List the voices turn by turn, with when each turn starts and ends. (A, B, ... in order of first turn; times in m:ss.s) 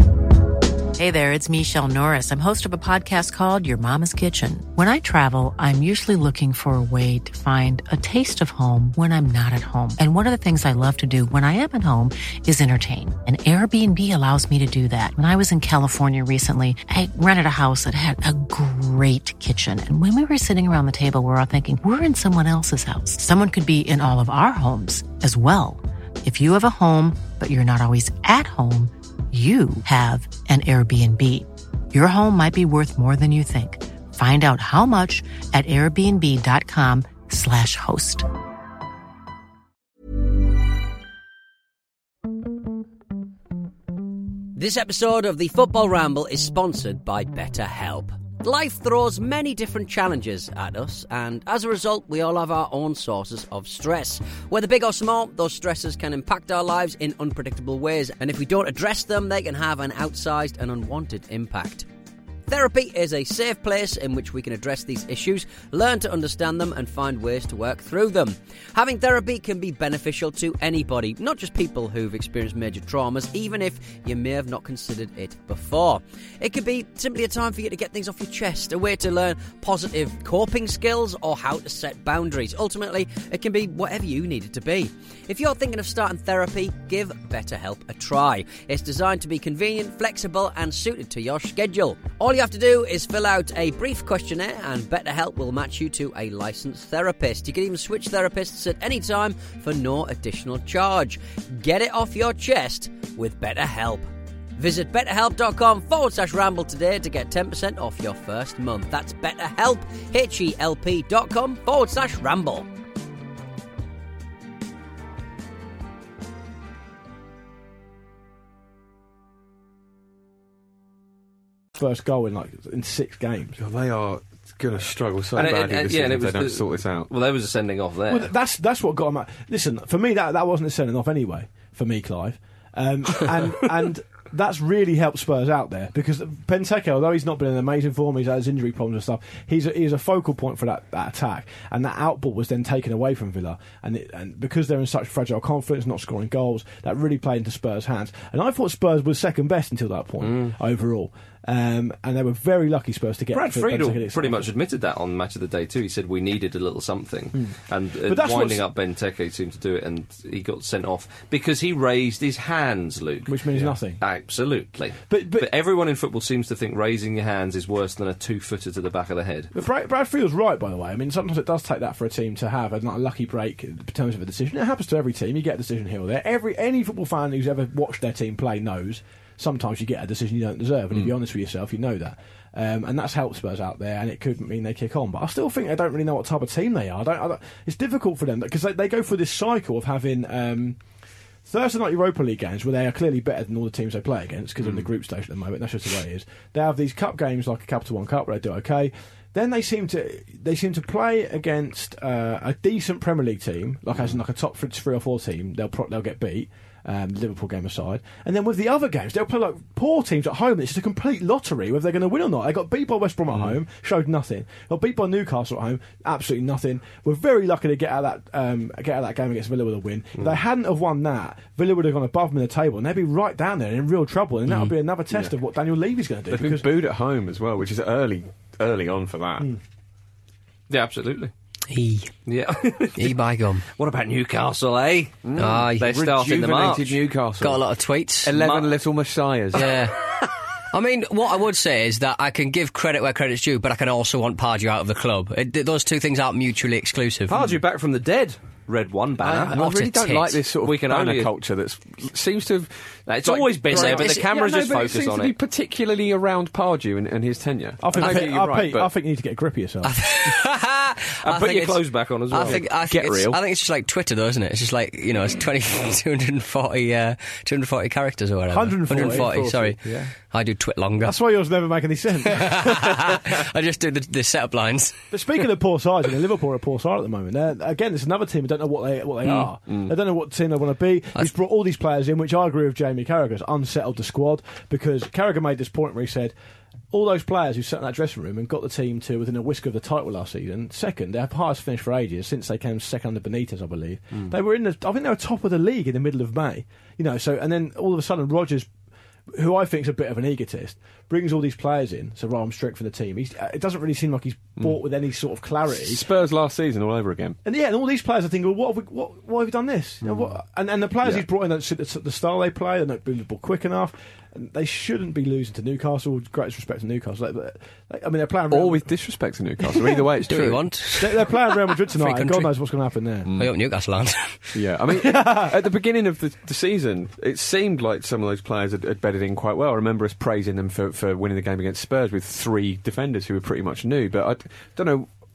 0:00.9-0:38.3 A
0:44.6-1:01.9 B
1:02.5-1:52.7 B
2:01.8-2:03.6 C
2:03.6-2:07.1 D
2:05.4-2:08.3 E
2:08.1-2:34.5 C
2:30.2-2:30.5 E
2:33.3-2:49.5 E
2:38.1-2:38.7 C
2:43.3-2:44.0 C
2:45.1-2:45.5 C
2:49.5-3:10.8 C
3:11.5-3:46.7 C
3:46.3-3:49.5 D
3:50.7-3:51.3 E
3:51.7-3:52.1 F
3:52.3-3:57.0 E
3:53.0-3:53.6 F
3:55.2-3:57.6 D
3:55.4-3:55.9 F
3:57.4-3:58.3 F
3:58.2-3:59.8 D
3:58.3-3:58.8 E
3:59.6-3:59.9 F
4:00.7-4:07.4 F
4:07.3-4:09.6 E
4:09.2-4:18.9 D
4:09.5-4:10.4 F
4:10.6-4:11.3 E
4:13.1-4:15.3 E
4:13.7-4:14.2 F
4:17.8-4:19.9 C
4:19.8-4:31.2 F
4:21.2-4:22.6 E
4:22.4-4:23.4 D
4:28.5-4:29.9 C
4:28.9-4:30.0 D
4:31.0-4:33.2 C
4:32.4-4:35.0 F
4:35.1-4:46.3 C
4:46.9-4:58.7 C
4:59.4-5:06.0 C
5:05.7-5:07.4 D
5:07.4-5:18.9 C
5:11.0-5:11.3 D
5:18.5-5:20.7 D
5:19.6-5:20.1 C
5:20.3-5:22.5 F
5:21.0-5:23.3 C
5:23.2-5:23.5 D
5:23.3-5:24.4 F
5:24.5-5:35.1 D
5:24.9-5:25.5 C